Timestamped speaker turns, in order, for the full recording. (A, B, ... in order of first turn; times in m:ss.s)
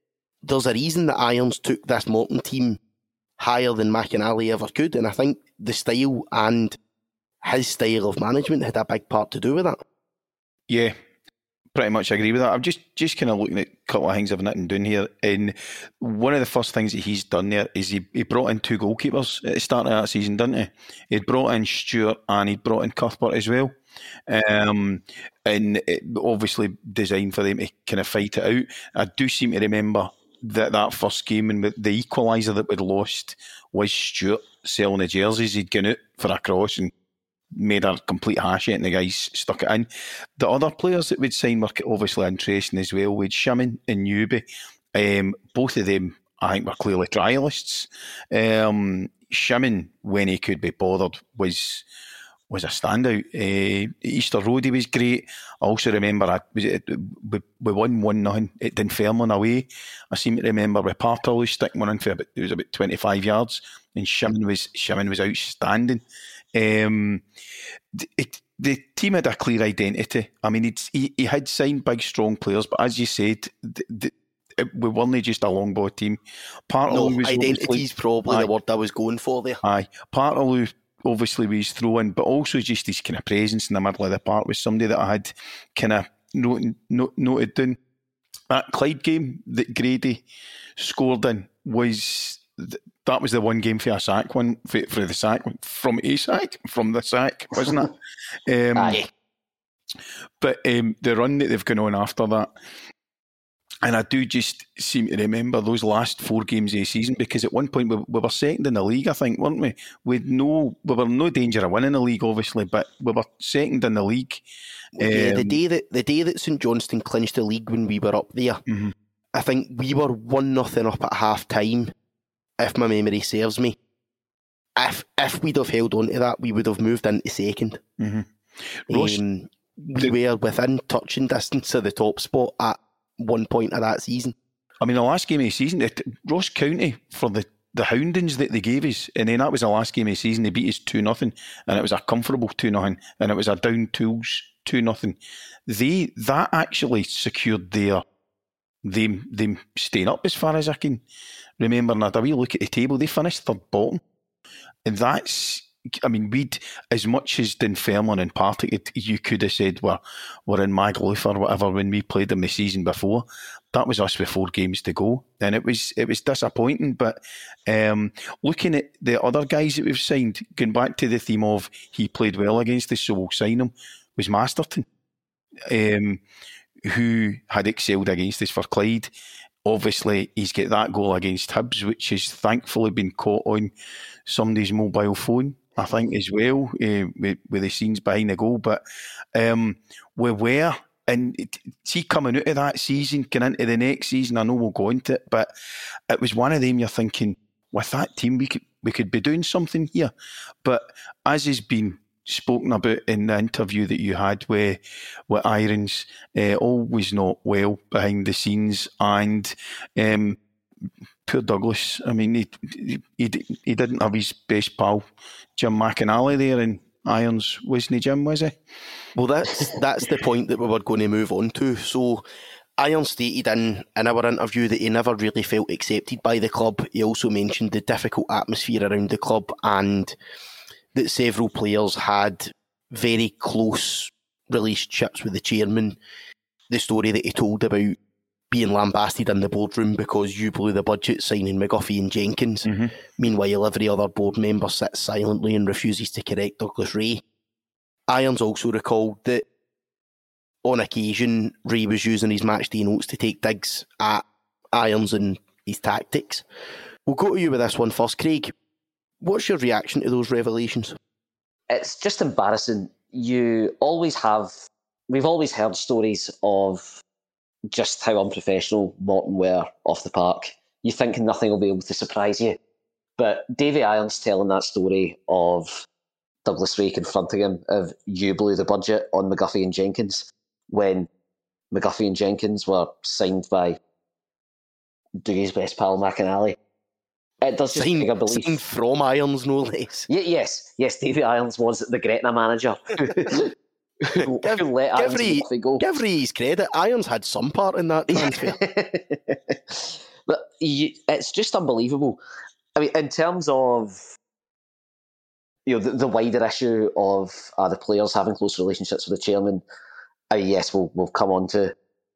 0:00.4-0:02.8 A
0:03.4-0:06.8 A
0:07.4-0:09.8 A
0:10.7-0:10.9 B
0:11.7-0:23.7 B
0:24.3-0:36.9 B
0:37.5-0:44.4 B
0:44.9-0:51.8 B
0:52.5-1:06.0 B
1:06.5-1:07.2 B
1:07.9-1:18.5 B
1:16.9-1:19.6 A
1:19.6-1:27.8 B
1:28.5-1:30.2 B
1:30.8-1:37.9 B
1:38.5-1:39.0 B
1:38.8-1:39.1 A
1:40.4-1:42.5 B
1:43.8-1:54.4 B
1:55.0-1:58.6 A
1:55.0-1:55.6 B
1:58.7-1:58.9 B
1:59.3-2:01.9 A
2:02.6-2:03.8 A
2:04.8-2:07.8 A
2:08.0-2:09.2 B
2:08.9-2:14.3 A
2:14.8-2:25.2 B
2:25.7-2:28.0 B
2:28.8-2:31.0 B
2:31.6-2:34.0 B
2:34.8-2:54.8 B
2:55.7-2:56.2 B
2:56.8-2:59.1 B
2:59.6-3:03.7 B
3:04.3-3:08.8 B
3:09.3-3:15.5 B
3:16.1-3:20.1 B
3:20.6-3:30.4 B
3:31.2-3:35.0 B
3:35.6-3:38.6 B
3:39.2-3:42.2 A
3:42.8-3:50.1 A
3:50.9-3:56.0 A
3:56.7-3:58.0 A
3:58.5-4:07.2 A
4:02.6-4:02.9 B
4:08.1-4:09.4 A
4:10.6-4:16.4 A
4:17.0-4:18.5 A
4:19.2-4:21.0 A
4:21.7-4:24.6 C
4:25.1-4:27.0 C
4:27.7-4:32.6 C
4:33.2-4:35.8 C
4:36.4-4:41.1 C
4:41.7-4:43.8 C
4:45.2-4:46.6 C
4:47.4-4:48.6 C
4:47.7-4:50.1 A
4:50.1-4:53.5 C
4:54.0-4:55.8 C
4:54.2-4:58.6 A
4:58.1-5:02.2 C
5:02.8-5:04.1 C
5:05.6-5:09.6 C
5:10.3-5:11.7 C